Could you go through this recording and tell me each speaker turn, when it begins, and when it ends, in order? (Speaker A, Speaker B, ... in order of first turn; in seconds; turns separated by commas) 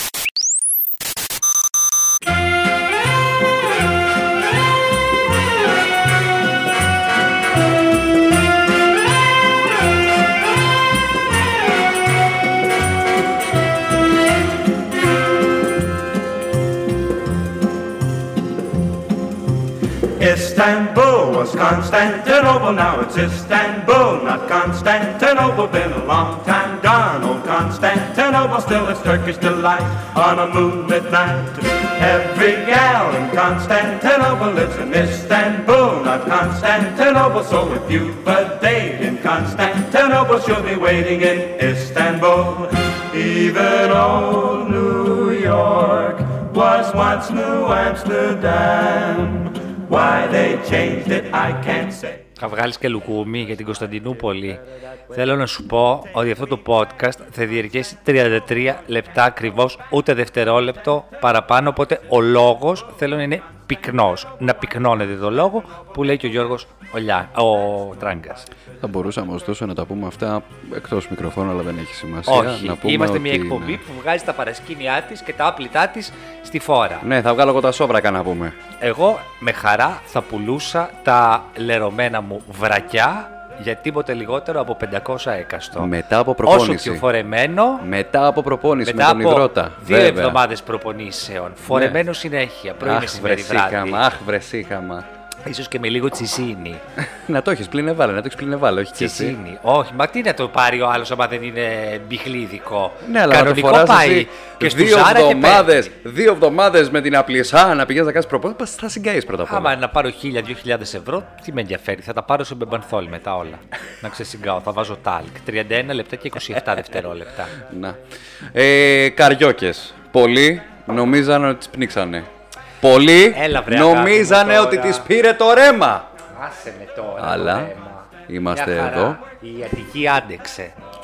Speaker A: 20.2-52.2, Speaker B: 52.4-68.5, Speaker C: 68.8-73.8, Speaker B: 72.3-77.1, Speaker C: 77.0-78.6, Speaker B: 78.8-85.9, Speaker C: 85.8-87.1, Speaker B: 86.5-87.9, Speaker C: 87.8-90.4, Speaker B: 88.8-94.0, Speaker C: 91.7-92.0, Speaker C: 92.8-95.1, Speaker B: 95.4-96.8, Speaker C: 97.0-99.3, Speaker B: 99.0-105.9, Speaker C: 103.0-109.7, Speaker B: 109.5-117.5, Speaker C: 117.5-118.0, Speaker C: 118.5-122.3, Speaker C: 122.8-126.1, Speaker B: 123.3-125.1, Speaker B: 126.3-130.8, Speaker C: 127.2-127.7, Speaker C: 128.3-129.2